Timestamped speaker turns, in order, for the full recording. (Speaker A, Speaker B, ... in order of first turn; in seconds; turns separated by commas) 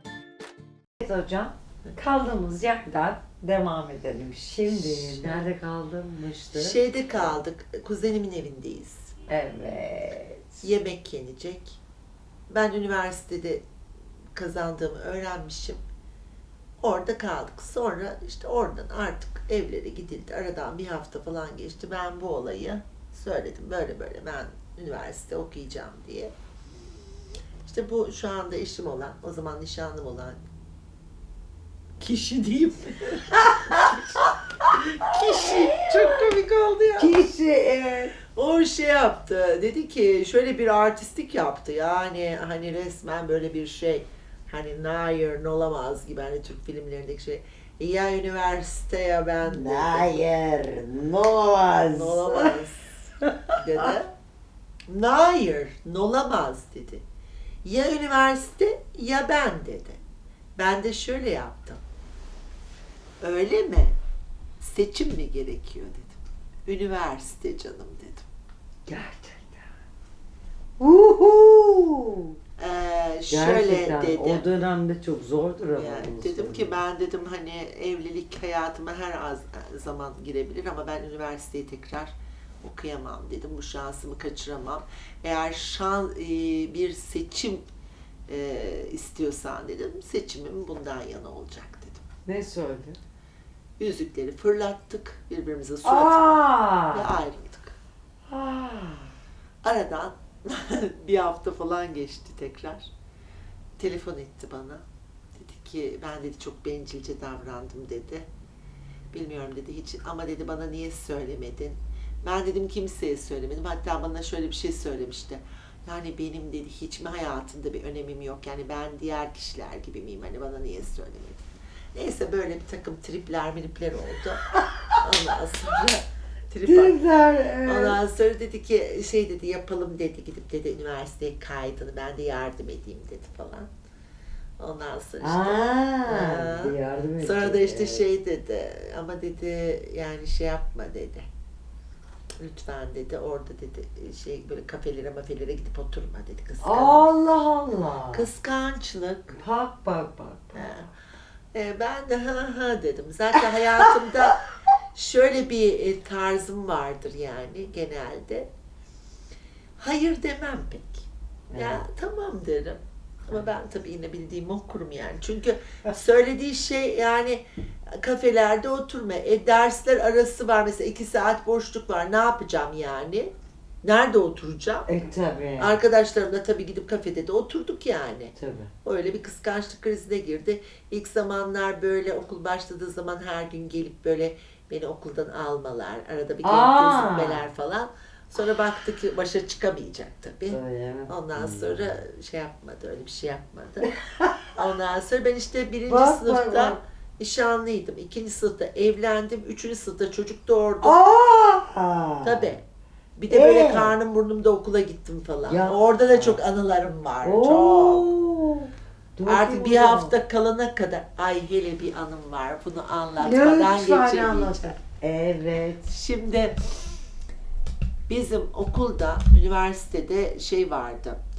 Speaker A: 1.0-7.3, Speaker B: 4.7-5.4, Speaker B: 6.5-9.1, Speaker A: 9.3-10.6, Speaker B: 10.6-11.8, Speaker B: 12.5-13.7, Speaker B: 14.3-15.8, Speaker B: 16.8-26.3, Speaker B: 27.6-30.4, Speaker B: 32.0-34.2, Speaker B: 34.8-37.2, Speaker A: 37.0-38.1, Speaker B: 38.4-50.1, Speaker A: 49.5-52.6, Speaker B: 51.9-52.9, Speaker B: 53.6-54.1, Speaker B: 54.9-57.0, Speaker B: 57.6-60.0, Speaker B: 60.6-61.8, Speaker B: 63.2-64.0, Speaker B: 64.6-68.2, Speaker A: 68.9-69.7, Speaker A: 70.8-72.3, Speaker B: 72.6-74.5, Speaker A: 73.3-76.7, Speaker B: 75.8-87.7, Speaker B: 88.3-92.0, Speaker A: 92.3-93.0, Speaker B: 93.8-97.8, Speaker A: 95.8-97.1, Speaker A: 98.3-99.1, Speaker B: 99.6-102.9, Speaker B: 103.8-104.8, Speaker B: 105.3-108.3, Speaker B: 109.1-121.4, Speaker B: 122.0-124.5, Speaker B: 125.0-127.1, Speaker A: 126.7-128.0, Speaker B: 127.7-133.7, Speaker B: 134.6-141.3, Speaker A: 135.2-138.1, Speaker B: 142.4-147.1, Speaker A: 146.6-148.3, Speaker B: 148.1-149.4, Speaker A: 149.4-150.8, Speaker B: 150.6-150.9, Speaker B: 151.5-154.4, Speaker B: 154.9-158.5, Speaker B: 159.8-167.4, Speaker A: 161.5-161.8, Speaker B: 168.0-174.9, Speaker A: 174.9-175.8, Speaker B: 175.6-193.9, Speaker A: 178.4-178.7, Speaker A: 186.4-187.4, Speaker A: 190.5-191.8, Speaker B: 194.6-201.0, Speaker A: 195.9-196.8, Speaker A: 200.8-202.4, Speaker B: 202.2-202.6, Speaker B: 203.2-208.1, Speaker A: 203.3-203.9, Speaker A: 205.5-206.4, Speaker A: 207.2-210.1, Speaker B: 209.2-214.8, Speaker A: 213.2-215.9, Speaker B: 215.9-216.6, Speaker B: 218.1-221.2